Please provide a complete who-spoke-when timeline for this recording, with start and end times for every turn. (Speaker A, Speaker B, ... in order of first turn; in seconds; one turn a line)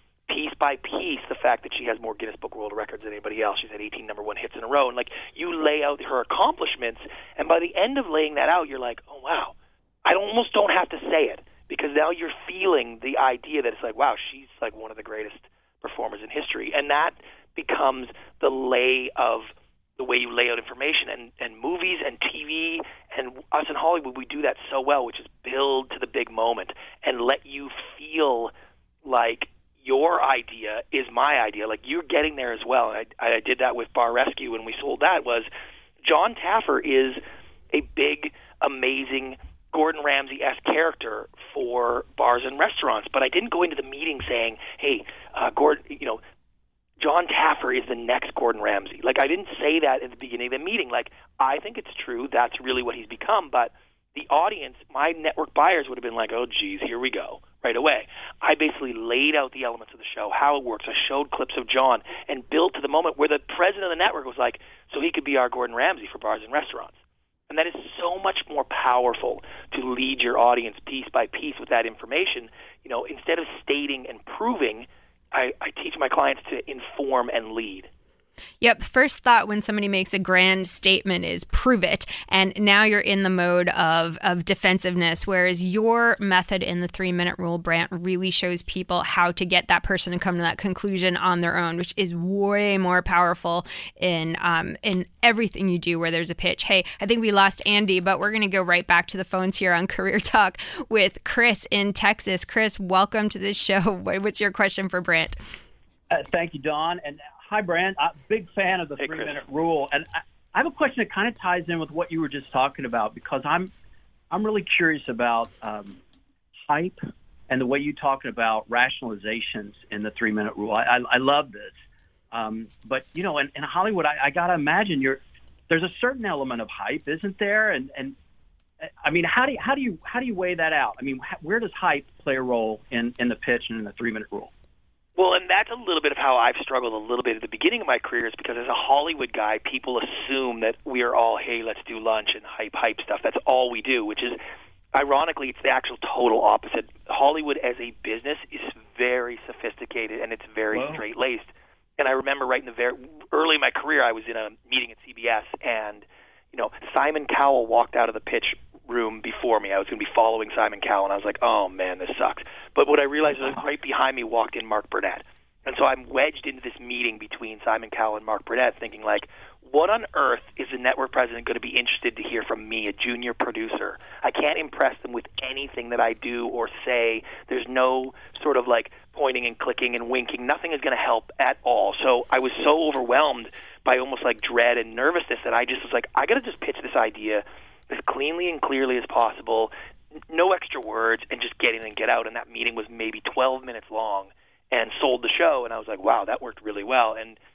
Speaker A: 0.3-9.5
Speaker A: 10.0-28.5
Speaker A: 29.0-35.5
Speaker A: 36.0-37.2
Speaker A: 37.7-46.2
Speaker A: 47.0-66.9
Speaker A: 67.5-77.9
Speaker B: 78.6-105.4
Speaker C: 106.1-113.7
Speaker A: 109.0-109.3
Speaker C: 114.3-116.0
Speaker C: 116.7-117.0
Speaker C: 117.5-121.8
Speaker C: 122.3-128.1
Speaker C: 129.0-134.5
Speaker A: 135.2-144.4
Speaker A: 144.9-189.7
Speaker C: 150.7-151.0
Speaker A: 190.3-197.4